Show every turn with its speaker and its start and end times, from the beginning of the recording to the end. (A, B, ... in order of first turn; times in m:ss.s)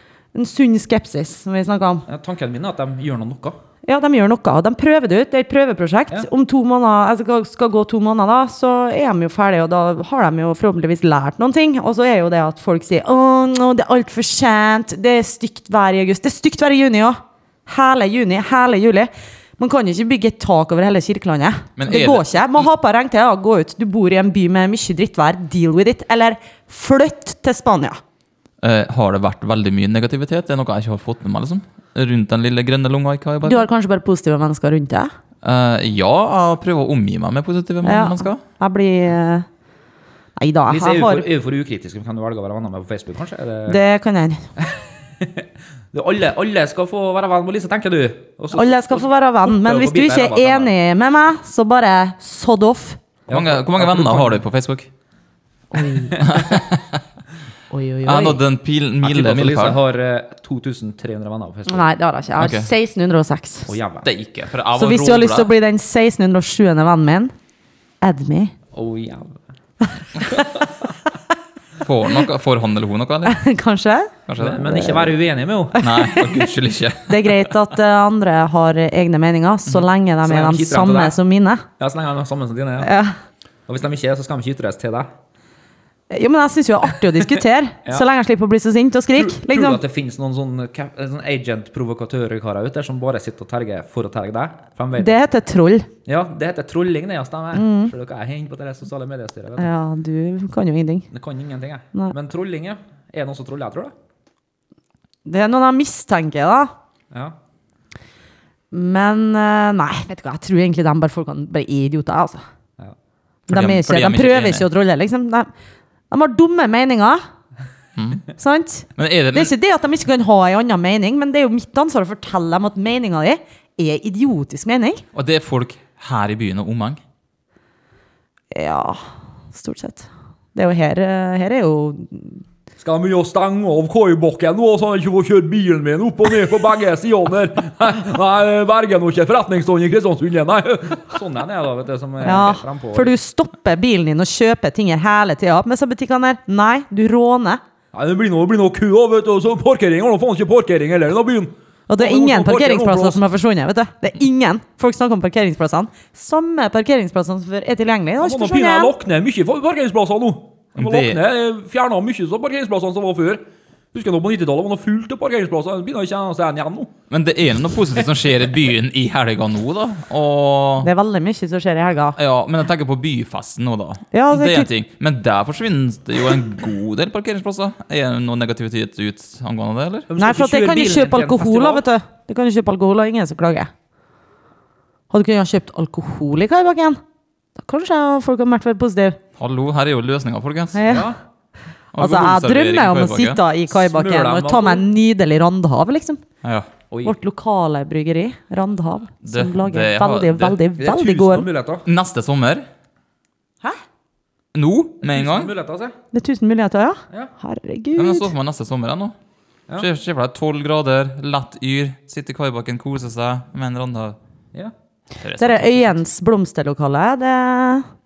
0:00.3-0:02.1 A
0:02.1-0:03.6 B
0:03.9-0:28.0 A
0:21.8-0:22.7 C
0:28.6-0:33.7 C
0:33.4-0:35.1 A
0:35.4-0:38.4 C
0:37.8-0:39.5 A
0:40.4-0:41.3 A
0:40.7-0:43.8 B
0:43.7-0:44.5 A
0:44.6-0:50.7 B
0:48.5-0:53.0 A
0:53.3-0:54.4 B
0:53.3-0:54.9 C
0:55.7-0:56.4 A
0:56.2-0:57.0 C
0:57.7-0:58.4 A
0:58.0-0:59.8 C
0:59.0-1:01.9 B
1:01.7-1:03.7 A
1:02.4-1:02.7 C
1:03.7-1:04.1 B
1:04.0-1:05.5 C
1:04.8-1:07.3 A
1:08.0-1:08.5 A
1:08.7-1:09.4 B
1:11.8-1:13.4 C
1:13.3-1:14.1 A
1:14.3-1:14.7 C
1:14.4-1:15.8 B
1:14.7-1:15.2 A
1:15.8-1:16.4 A
1:15.8-1:17.5 C
1:17.1-1:21.6 A
1:20.2-1:21.2 B
1:21.8-1:22.9 B
1:22.8-1:23.2 A
1:23.7-1:25.1 B
1:26.1-1:29.8 A
1:29.1-1:35.2 B
1:35.0-1:35.9 A
1:36.1-1:39.7 B
1:37.6-1:37.9 A
1:39.6-1:41.1 A
1:41.1-1:43.9 B
1:45.2-1:46.7 A
1:48.7-1:52.4 A
1:53.5-1:54.7 C
1:53.5-1:55.5 A
1:56.1-1:57.2 A
1:58.0-1:58.2 C
1:58.4-2:05.0 A
1:59.0-1:59.5 C
2:05.1-2:07.0 C
2:08.5-2:12.4 A
2:12.8-2:23.1 B
2:22.2-2:27.6 A
2:27.9-2:33.2 B
2:31.9-2:38.9 A
2:38.2-2:46.9 B
2:40.8-2:41.2 C
2:47.1-2:50.9 C
2:50.8-2:52.2 A
2:52.2-3:00.1 C
2:54.1-2:54.7 A
3:00.1-3:01.8 B
3:00.2-3:03.7 A
3:05.1-3:07.0 A
3:07.6-3:09.2 A
3:09.4-3:10.9 C
3:10.7-3:11.1 A
3:10.9-3:11.2 B
3:11.9-3:13.4 C
3:12.0-3:16.2 A
3:13.7-3:14.9 B
3:16.4-3:16.7 C
3:16.9-3:17.2 B
3:17.0-3:21.5 A
3:19.2-3:20.6 C
3:20.8-3:21.9 B
3:21.8-3:22.7 C
3:24.5-3:25.5 C
3:25.1-3:26.0 B
3:26.1-3:28.3 A
3:28.0-3:29.2 C
3:29.8-3:34.2 C
3:35.2-3:36.0 C
3:35.4-3:37.9 A